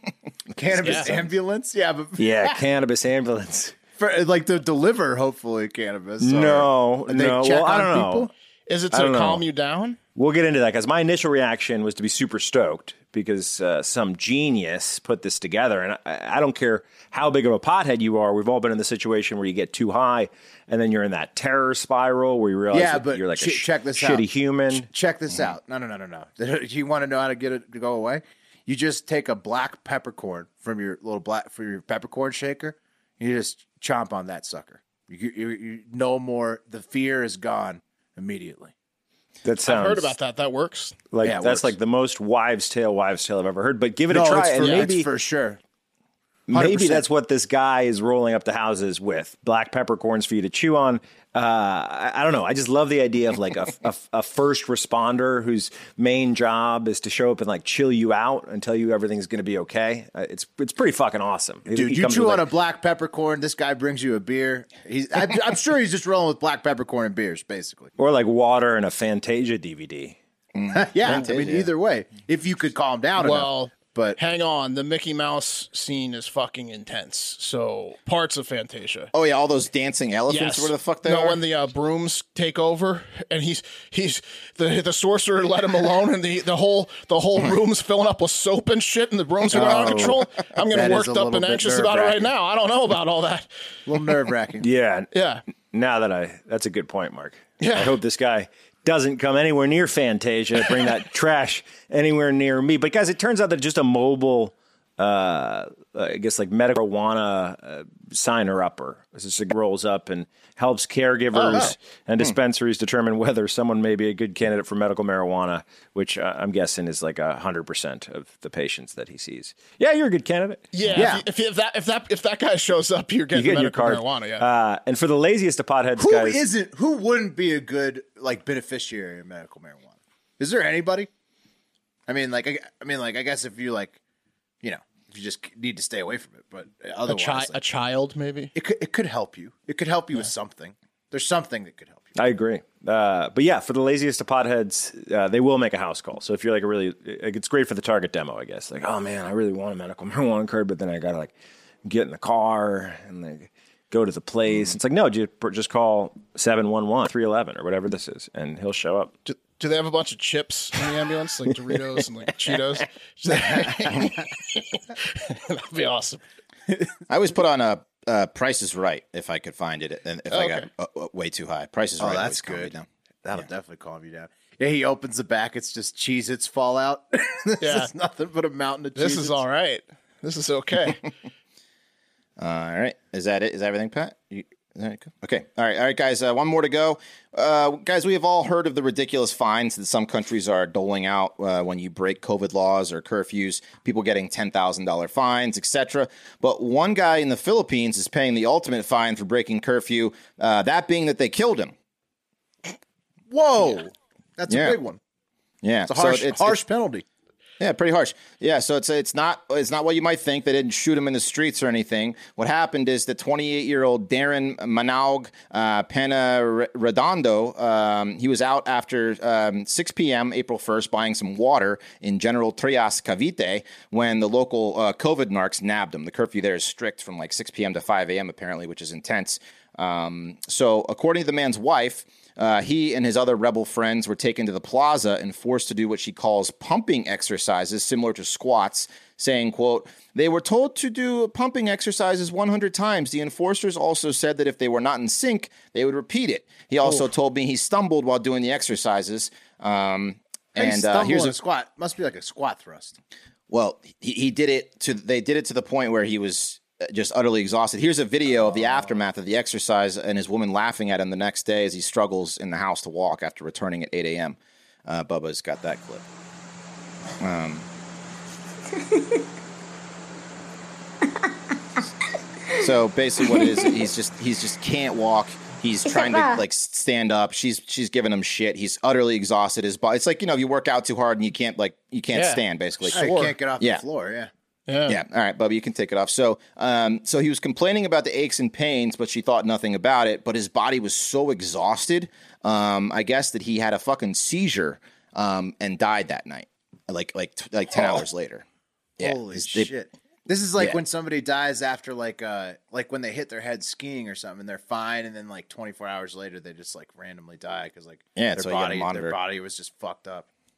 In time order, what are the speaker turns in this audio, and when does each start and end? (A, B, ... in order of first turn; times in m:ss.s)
0:00.6-0:02.6 A
0:00.8-0:01.3 B
0:00.8-0:01.1 C
0:02.2-0:03.8 D
0:04.0-0:08.3 A
0:06.2-0:08.3 D
0:08.7-0:10.0 C
0:08.9-0:09.4 D
0:10.2-0:24.9 D
0:22.7-0:38.7 A
0:39.4-0:40.2 D
0:39.7-0:41.0 C
0:41.1-0:45.1 D
0:41.2-0:41.7 A
0:44.1-0:45.6 A
0:44.6-0:44.9 C
0:46.5-1:02.5 D
0:46.5-0:47.0 A
1:01.8-1:07.9 A
1:08.0-1:10.2 D
1:10.6-1:11.7 B
1:10.7-1:14.2 A
1:13.2-1:19.1 C
1:19.1-1:21.4 B
1:20.3-1:33.5 C
1:29.5-1:30.2 A
1:29.6-1:30.1 D
1:30.7-1:32.3 A
1:33.9-1:34.7 A
1:34.6-1:35.1 D
1:35.1-1:35.4 C
1:35.7-2:01.1 D
1:37.6-1:37.9 C
1:51.3-1:51.7 C
2:00.7-2:04.5 C
2:01.0-2:01.2 A
2:03.3-2:06.4 D
2:06.0-2:11.1 A
2:12.1-2:14.0 A
2:14.6-2:17.6 A
2:17.1-2:18.5 C
2:18.6-2:22.1 A
2:22.2-2:31.3 D
2:31.8-2:39.1 D
2:39.3-2:46.2 C
2:43.3-2:44.1 A
2:47.1-2:52.9 B
2:50.3-2:50.7 C
2:52.0-2:52.7 A
2:53.2-2:59.4 A
2:57.6-2:57.9 C
2:59.0-3:01.0 C
3:02.4-3:21.7 B
3:23.3-3:25.0 A
3:24.5-3:24.8 B
3:25.6-3:26.6 B
3:25.9-3:27.0 A
3:27.6-4:11.4 B
4:10.6-4:13.0 A
4:13.5-4:26.0 B
4:27.2-4:27.7 B
4:32.6-4:43.1 B
4:42.1-4:43.4 C
4:42.9-4:44.3 A
4:44.7-4:45.0 C
4:44.9-4:58.4 B
4:59.0-4:59.7 B
4:59.0-5:10.3 A
5:08.2-5:09.2 B